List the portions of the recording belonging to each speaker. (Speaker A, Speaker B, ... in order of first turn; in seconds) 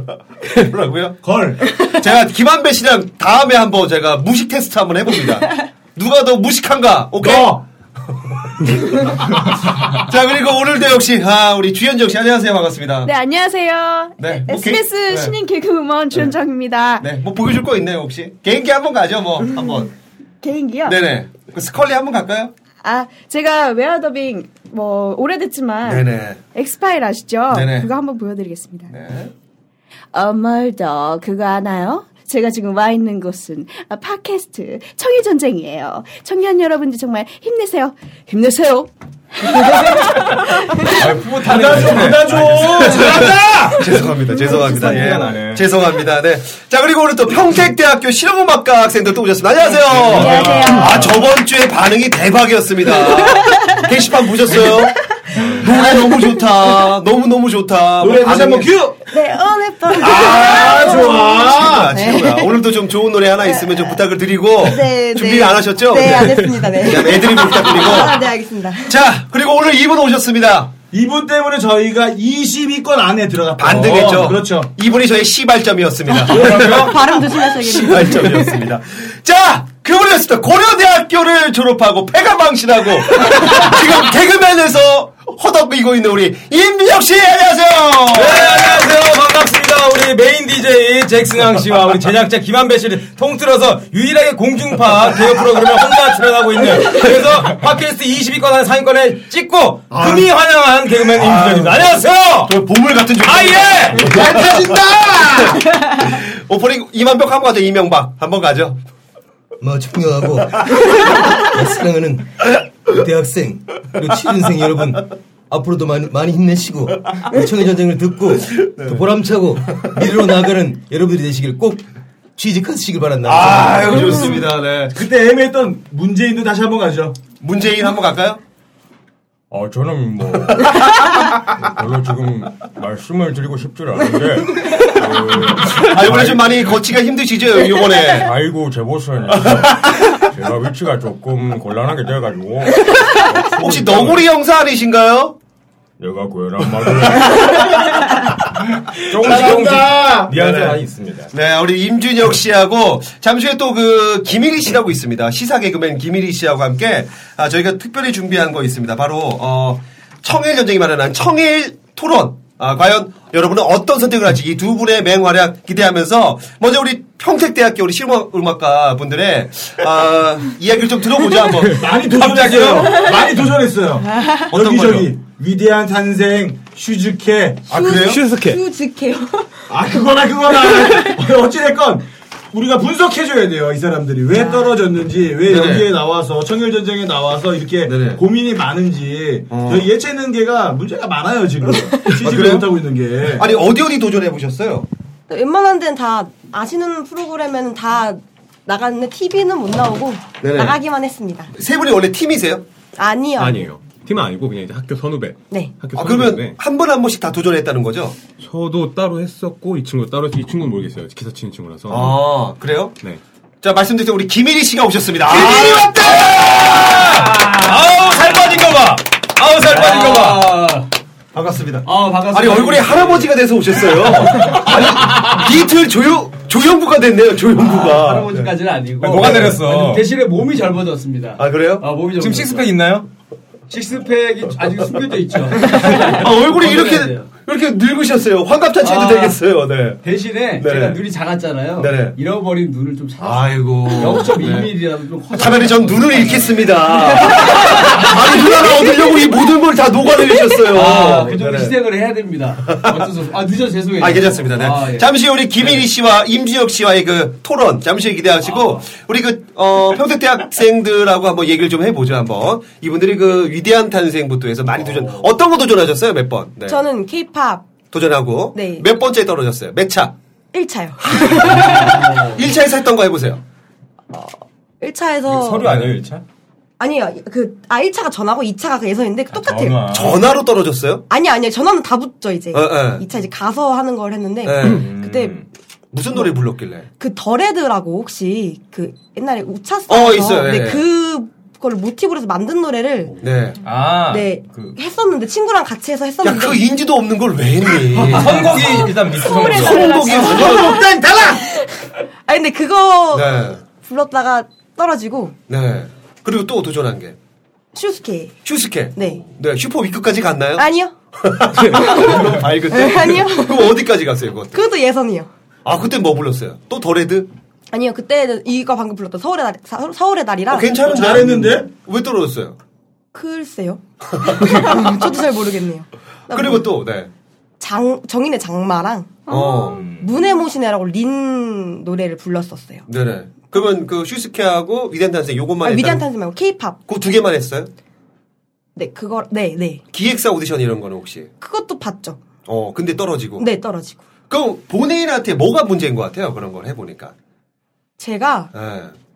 Speaker A: 0.5-13.1, 14.2-15.4, 17.0-19.9, 20.9-22.5, 25.8-26.4, 27.5-27.9, 28.9-29.3, 42.6-58.8, 60.0-68.3, 68.8-70.7, 73.6-88.7, 99.9-100.3, 101.1-108.8, 118.7-119.9, 123.2-125.0, 127.4-128.4, 130.6-130.8, 135.7-138.3, 139.3-140.2, 143.5-145.4, 147.1-147.3, 149.2-172.9, 174.5-175.1, 185.5-185.9, 187.9-188.2, 189.5-189.9, 192.2-192.7, 193.4-194.9, 200.4-200.8, 201.5-202.7, 206.0-208.2, 211.9-213.0, 213.6-216.3, 219.7-220.1, 221.3-228.6, 231.4-231.9, 236.1-240.0, 240.6-241.0, 241.8-242.2, 243.2-244.8, 245.3-251.8, 252.7-253.1, 254.0-266.8, 267.9-270.1, 271.2-273.4, 275.7-275.9, 279.9-281.0, 282.5-283.1, 284.4-284.9, 285.9-286.9, 289.9-290.8, 293.2-293.6, 296.2-298.9, 303.1-303.6, 305.5-307.2, 308.4-310.7, 311.2-314.6, 315.6-317.3, 320.5-322.6, 324.2-324.9, 326.3-327.1, 329.3-329.9, 332.9-336.1, 336.9-337.7, 339.9-341.3, 342.5-343.4, 344.3-347.1, 348.5-348.9
Speaker B: 1.2-1.7, 7.2-7.6, 41.4-43.9, 58.0-59.0, 60.0-62.0, 70.9-74.7, 76.2-77.0, 104.1-105.6, 119.8-120.2, 123.4-124.1, 124.9-127.2, 149.2-150.2, 171.7-178.2, 179.7-193.5, 299.6-301.4, 320.8-321.7
Speaker C: 13.1-17.1, 20.4-21.0, 22.8-28.9, 30.1-41.0, 44.4-44.8
Speaker D: 40.9-43.2, 44.5-45.7, 49.7-51.2, 88.1-102.6, 103.2-104.6, 129.5-136.8, 138.1-144.3, 146.0-151.3, 171.6-173.0, 215.3-220.6, 229.0-230.1, 232.2-233.1, 235.8-236.2, 275.3-276.2, 279.3-280.3, 284.6-285.5, 293.6-294.8, 297.9-300.4, 329.7-330.1
Speaker E: 50.1-51.0, 53.0-53.8, 59.1-62.6, 64.6-68.9, 76.3-78.6, 177.7-179.5, 180.7-181.2, 184.3-184.8, 195.3-201.5, 203.0-203.7, 266.7-267.7, 268.5-268.9, 270.5-271.9, 274.1-275.7, 276.8-279.8, 281.1-285.4, 287.0-293.1, 294.1-296.6, 298.5-300.9, 302.3-305.4, 307.7-308.4, 308.9-309.2, 310.6-310.9, 311.7-313.7, 314.5-315.3, 317.7-320.7, 323.1-326.8, 327.6-332.9, 335.6-336.8, 338.8-339.8, 341.4-342.2, 343.4-344.0, 348.0-348.5
Speaker F: 109.7-110.2, 113.2-113.6, 115.8-116.7, 120.7-121.3
Speaker G: 177.9-178.6, 203.4-206.6, 208.4-212.2
Speaker H: 219.6-220.9, 221.8-223.3, 224.4-224.9, 227.6-232.7, 233.7-237.3, 238.8-239.4, 240.0-248.4, 250.7-255.9, 258.5-258.8, 264.8-265.3, 271.6-272.5